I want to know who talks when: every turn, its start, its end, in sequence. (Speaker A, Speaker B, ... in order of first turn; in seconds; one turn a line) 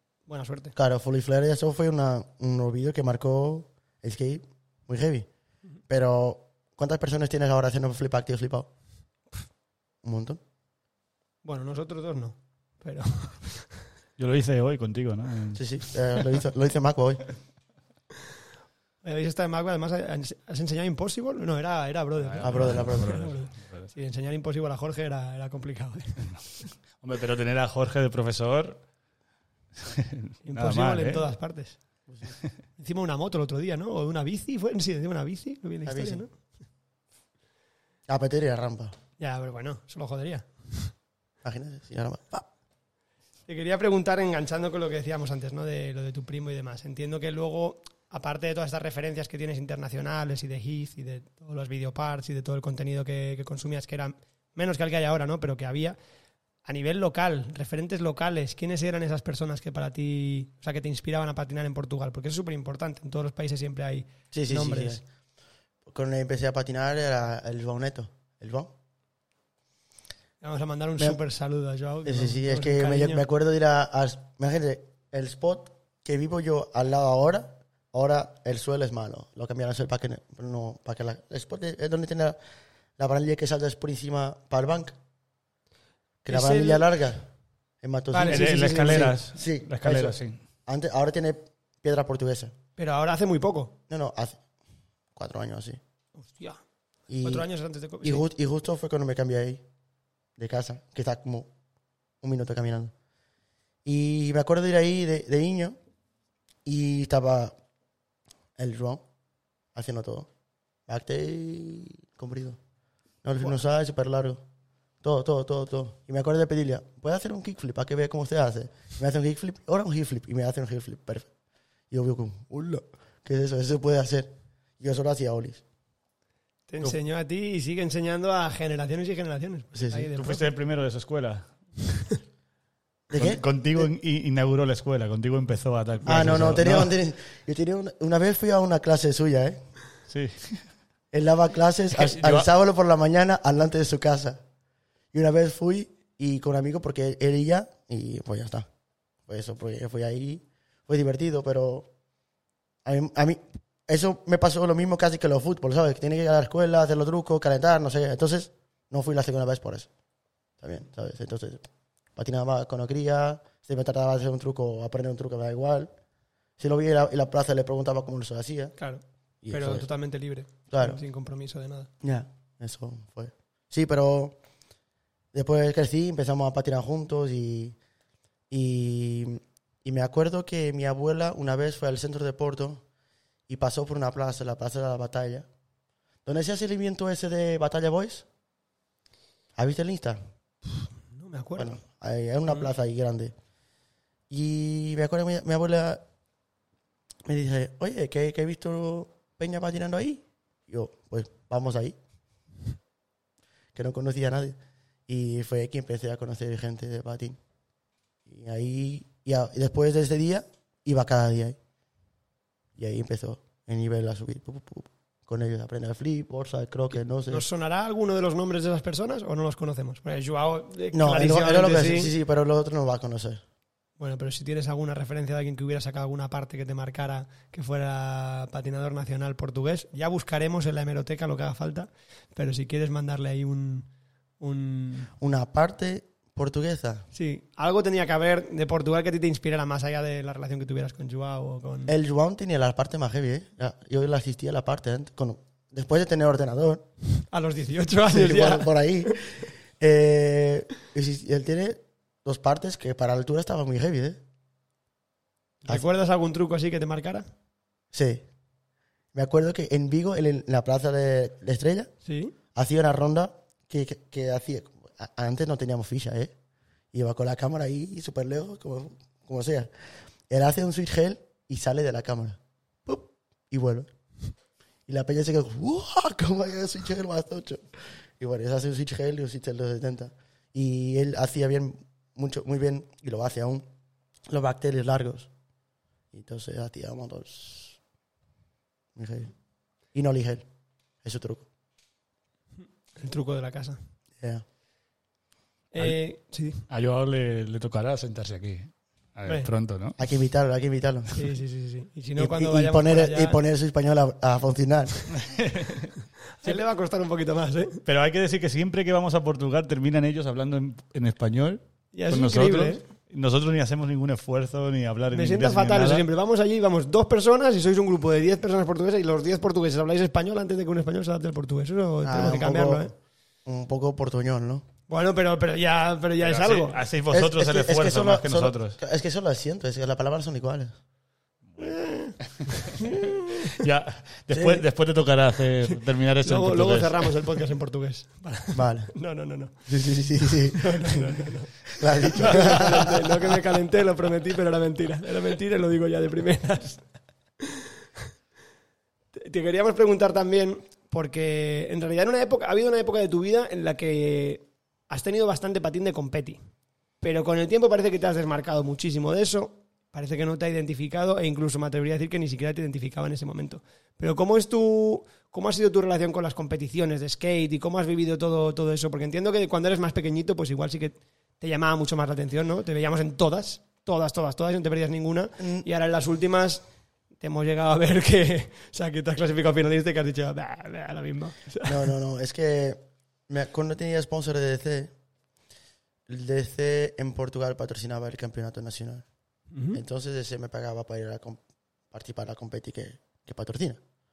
Speaker A: 0.3-0.8
Speaker B: 0.8-5.3
Speaker B: 5.9-8.7
Speaker B: 10.0-10.4
Speaker A: 11.4-13.8
Speaker C: 14.2-16.2
Speaker B: 15.6-17.2
Speaker A: 19.0-26.3
Speaker C: 22.2-23.9
Speaker B: 22.4-23.2
Speaker C: 27.0-28.8
Speaker C: 29.8-31.3
Speaker A: 30.5-31.8
Speaker B: 32.1-32.4
Speaker A: 32.8-36.3
Speaker B: 35.9-36.2
Speaker B: 38.1-38.9
Speaker A: 39.2-40.9
Speaker B: 41.4-42.5
Speaker A: 43.5-56.0
Speaker A: 56.6-65.0
Speaker B: 64.3-65.0
Speaker B: 65.9-68.7
Speaker A: 70.4-73.3
Speaker B: 72.1-82.4
Speaker B: 83.0-85.0
Speaker B: 86.2-87.3
Speaker A: 86.3-86.8
Speaker B: 87.8-92.5
Speaker A: 88.1-89.2
Speaker C: 88.3-90.4
Speaker A: 92.8-93.8
Speaker B: 93.9-94.4
Speaker B: 95.2-95.8
Speaker A: 96.2-96.6
Speaker B: 97.1-97.5
Speaker A: 97.2-98.3
Speaker B: 98.0-99.6
Speaker B: 100.4-101.5
Speaker B: 102.2-102.9
Speaker B: 103.8-105.8
Speaker B: 106.7-107.5
Speaker B: 108.6-109.0
Speaker B: 109.8-110.3
Speaker B: 110.9-112.6
Speaker B: 113.2-114.4
Speaker B: 115.0-121.3
Speaker B: 121.9-125.6
Speaker A: 126.7-130.5
Speaker B: 129.8-130.1
Speaker C: 130.2-132.0
Speaker B: 133.1-133.9
Speaker C: 133.1-136.9
Speaker B: 136.1-139.6
Speaker C: 140.1-140.7
Speaker B: 141.1-144.4
Speaker C: 141.9-142.5
Speaker B: 145.1-148.7
Speaker B: 149.3-151.9
Speaker B: 152.8-159.9
Speaker B: 160.6-165.9
Speaker B: 166.6-168.8
Speaker A: 168.8-171.9
Speaker B: 169.4-169.9
Speaker B: 170.7-171.0
Speaker B: 172.0-174.4
Speaker B: 175.3-177.8
Speaker B: 178.5-182.8
Speaker B: 183.5-185.5
Speaker B: 186.2-188.3
Speaker B: 189.6-190.2
Speaker A: 191.1-191.8
Speaker B: 191.6-193.3
Speaker B: 194.3-196.0
Speaker B: 197.3-202.0
Speaker B: 203.8-204.6
Speaker B: 205.1-207.4
Speaker B: 208.3-211.6
Speaker B: 212.8-217.4
Speaker A: 217.3-222.1
Speaker B: 220.9-223.4
Speaker A: 224.0-233.9
Speaker A: 234.4-235.1
Speaker B: 235.2-237.1
Speaker A: 237.1-242.0
Speaker B: 241.9-246.9
Speaker A: 247.3-249.2
Speaker B: 248.1-254.2
Speaker A: 255.7-257.3
Speaker B: 257.9-258.3
Speaker B: 259.1-261.9
Speaker A: 262.0-262.4
Speaker B: 262.6-266.3
Speaker B: 266.9-269.7
Speaker B: 270.3-273.9
Speaker B: 274.9-283.6
Speaker B: 284.3-285.3
Speaker B: 286.1-287.8
Speaker B: 289.0-289.3
Speaker B: 289.9-290.4
Speaker B: 291.0-291.5
Speaker A: 292.9-293.8
Speaker A: 295.7-296.6
Speaker C: 296.7-300.0
Speaker B: 300.0-301.1
Speaker A: 301.1-303.4
Speaker B: 302.2-305.1
Speaker C: 305.1-305.9
Speaker A: 306.4-307.8
Speaker C: 307.9-316.1
Speaker A: 311.9-312.8
Speaker A: 315.1-322.9
Speaker B: 322.0-322.9
Speaker B: 323.5-324.6
Speaker A: 324.9-326.8
Speaker C: 326.2-328.8
Speaker B: 327.1-330.8
Speaker C: 331.5-337.1
Speaker A: 331.6-333.5
Speaker B: 334.3-334.6
Speaker A: 336.2-339.7
Speaker B: 338.5-338.9
Speaker B: 339.7-343.1
Speaker A: 340.5-346.8
Speaker C: 342.2-342.9
Speaker A: 347.4-347.7
Speaker A: 349.2-356.4
Speaker A: 357.0-376.6
Speaker B: 375.4-375.7
Speaker A: 377.2-381.9
Speaker B: 381.6-384.9
Speaker B: 386.1-389.1
Speaker A: 389.5-389.8
Speaker B: 389.7-391.4
Speaker B: 391.9-393.8